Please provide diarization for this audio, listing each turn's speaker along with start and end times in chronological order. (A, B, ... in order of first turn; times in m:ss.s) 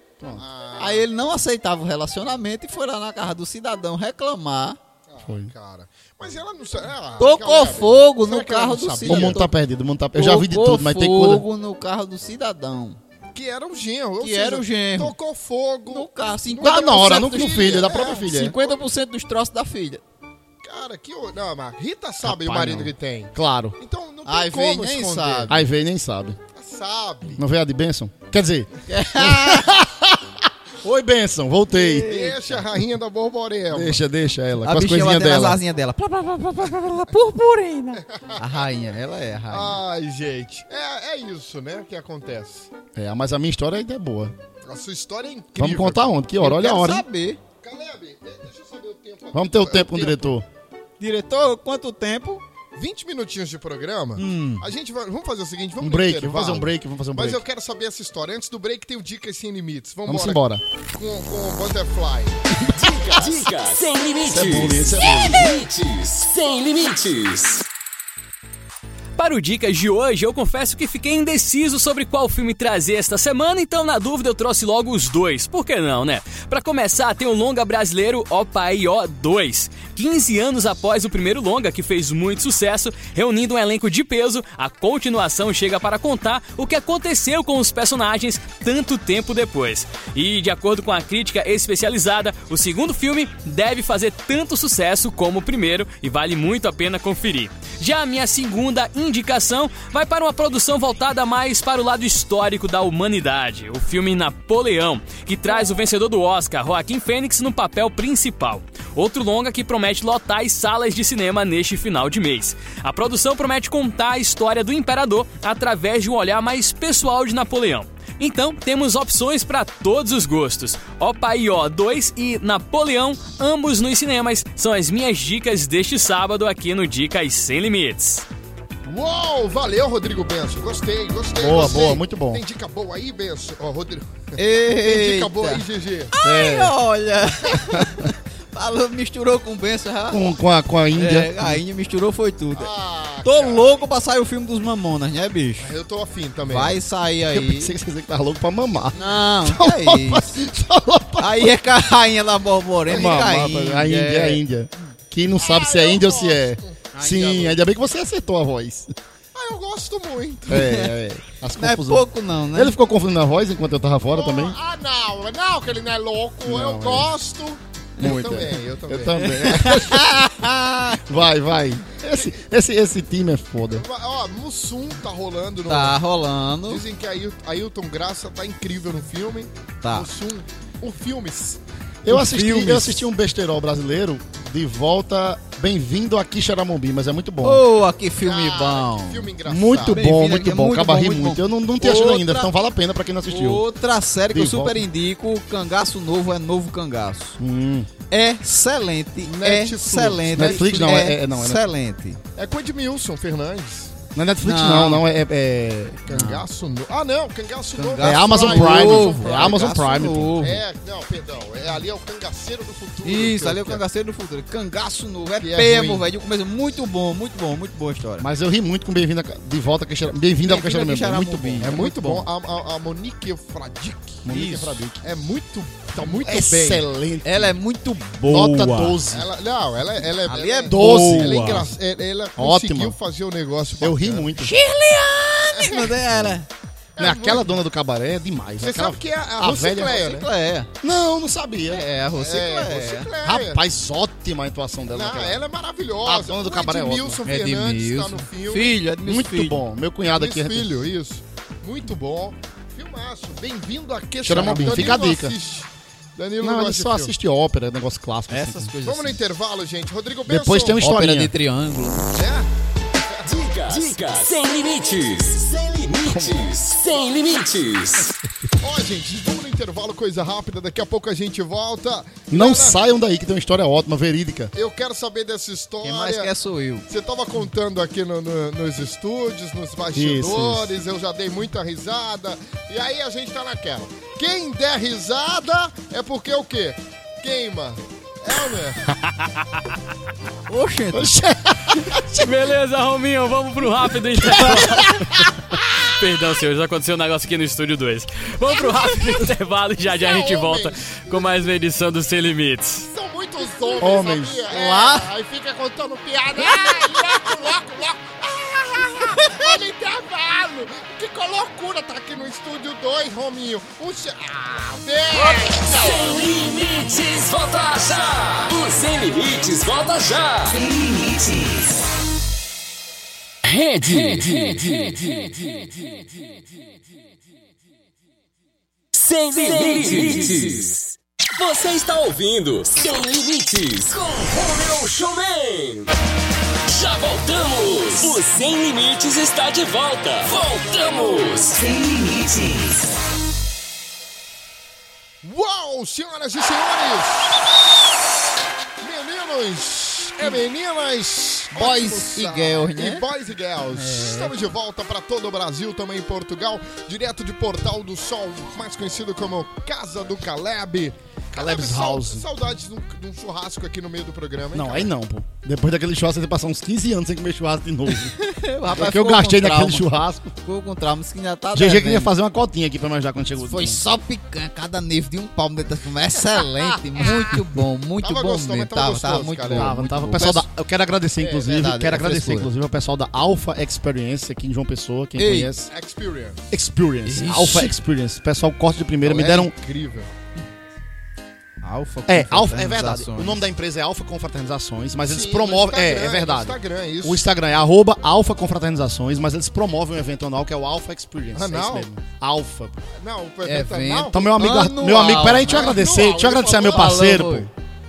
0:00.3-0:01.1 A
0:00.8-0:04.8 B
0:05.1-0:09.4 A
0:05.2-0:05.5 C
0:07.2-0:09.5 B
0:09.0-0:11.4 C
0:10.1-0:13.0 B
0:13.3-0:18.3 A
0:14.2-0:15.1 B
0:15.9-0:20.0 B
0:16.6-0:18.6 C
0:20.6-0:25.6 A
0:22.2-0:23.8 C
0:24.2-0:25.6 B
0:25.5-0:26.4 C
0:26.5-0:27.4 A
0:27.4-0:32.2 C
0:28.9-0:29.7 B
0:31.7-0:32.6 B
0:32.0-0:34.0 A
0:33.7-0:35.6 C
0:34.6-0:39.8 B
0:38.1-0:38.4 A
0:39.5-0:42.7 A
0:42.9-0:44.3 C
0:44.6-0:46.1 A
0:45.6-0:47.0 C
0:46.4-0:47.4 B
0:47.6-0:50.3 A
0:49.3-0:50.4 C
0:51.0-0:52.4 B
0:52.7-1:00.4 A
0:54.2-0:54.6 B
0:55.8-0:57.4 C
1:00.0-1:00.6 C
1:00.9-1:02.4 A
1:02.7-1:07.6 D
1:04.2-1:05.5 C
1:09.2-2:08.2 E
2:08.8-2:16.1 A
2:11.4-2:12.4 C
2:14.4-2:20.3 B
2:16.2-2:16.7 C
2:20.1-2:21.6 C
2:21.0-2:22.7 B
2:22.5-2:23.8 A
2:23.2-2:25.7 B
2:25.6-2:26.8 A
2:26.4-2:27.7 B
2:27.3-2:31.5 C
2:29.0-2:30.4 B
2:31.2-2:34.4 B
2:32.9-2:33.4 A
2:32.9-2:38.9 C
2:35.4-2:36.8 A
2:36.9-2:37.6 B
2:39.3-2:40.7 A
2:40.5-2:44.6 C
2:40.5-2:40.9 B
2:41.6-2:42.7 B
2:44.1-2:49.2 A
2:46.4-2:47.1 C
2:48.0-2:50.2 C
2:49.2-2:51.0 B
2:51.1-2:53.8 C
2:53.7-2:56.0 A
2:55.7-2:56.8 B
2:56.6-3:01.6 A
2:59.8-3:00.1 B
3:02.0-3:07.6 C
3:02.1-3:03.0 B
3:07.4-3:09.3 B
3:08.2-3:10.0 A
3:09.4-3:13.6 C
3:09.9-3:12.5 B
3:13.3-3:17.4 B
3:14.3-3:14.8 C
3:17.4-3:17.9 C
3:18.1-3:22.2 B
3:19.2-3:21.0 A
3:20.3-3:21.6 C
3:22.4-3:23.9 A
3:24.1-3:26.1 C
3:24.4-3:25.0 B
3:26.1-3:29.6 A
3:26.1-3:26.4 B
3:27.8-3:30.6 B
3:28.0-3:30.4 C
3:30.4-3:33.8 A
3:33.0-3:38.3 B
3:35.4-3:36.0 A
3:38.2-3:41.8 C
3:40.4-3:42.3 B
3:41.6-3:44.2 A
3:44.2-3:45.0 C
3:44.3-3:44.7 B
3:45.0-3:46.8 A
3:46.0-3:47.5 C
3:47.2-3:49.0 B
3:48.2-3:49.3 C
3:49.1-3:54.3 A
3:50.2-3:51.7 B
3:50.7-3:51.7 C
3:52.4-3:53.0 C
3:53.8-3:54.5 C
3:54.4-3:56.5 B
3:55.6-3:55.9 A
3:57.0-3:57.6 A
3:57.0-4:00.1 C
3:58.6-4:00.3 A
4:00.0-4:00.7 B
4:00.8-4:01.8 C
4:01.7-4:03.1 B
4:02.1-4:03.6 A
4:03.2-4:05.4 C
4:04.9-4:08.8 A
4:06.0-4:07.2 C
4:07.2-4:09.6 B
4:09.0-4:10.7 C
4:10.1-4:17.1 A
4:14.2-4:15.4 C
4:14.4-4:14.8 B
4:16.4-4:18.7 C
4:18.3-4:19.2 B
4:18.8-4:20.8 A
4:20.2-4:21.3 C
4:20.8-4:22.1 B
4:22.1-4:22.5 A
4:23.2-4:28.2 D
4:26.0-4:26.5 C
4:28.6-4:32.8 A
4:32.3-4:34.5 C
4:34.5-4:36.3 A
4:35.8-4:36.8 B
4:36.9-4:48.8 A
4:39.9-4:40.7 C
4:50.5-4:51.1 B
4:50.9-4:52.3 C
4:52.1-5:02.9 E
4:54.1-4:55.4 C
4:59.9-5:01.2 A
5:02.9-5:16.2 A
5:03.8-5:04.5 C
5:04.5-5:05.1 B
5:15.1-5:20.8 D
5:23.4-5:25.9 D
5:28.9-5:35.9 D
5:36.6-5:42.8 D
5:45.2-5:47.4 A
5:48.8-6:04.9 A
5:51.5-5:53.0 B
5:53.7-5:54.3 B
6:01.3-6:02.2 C
6:04.5-6:08.1 C
6:08.2-6:09.9 B
6:08.7-6:10.3 C
6:10.4-6:12.1 B
6:11.5-6:13.8 C
6:13.4-6:20.5 B
6:18.0-6:19.7 A
6:19.5-6:25.7 C
6:21.2-6:21.7 A
6:21.4-6:22.5 B
6:25.2-6:25.5 B
6:25.7-6:26.4 A
6:26.5-6:29.5 C
6:27.0-6:27.7 B
6:29.0-6:30.1 A
6:31.6-6:33.4 B
6:32.1-6:42.8 C
6:35.0-6:37.2 A
6:41.3-6:41.9 A
6:43.0-6:44.2 A
6:43.4-6:45.9 B
6:44.1-6:47.5 C
6:45.4-6:47.0 A
6:46.5-6:47.5 B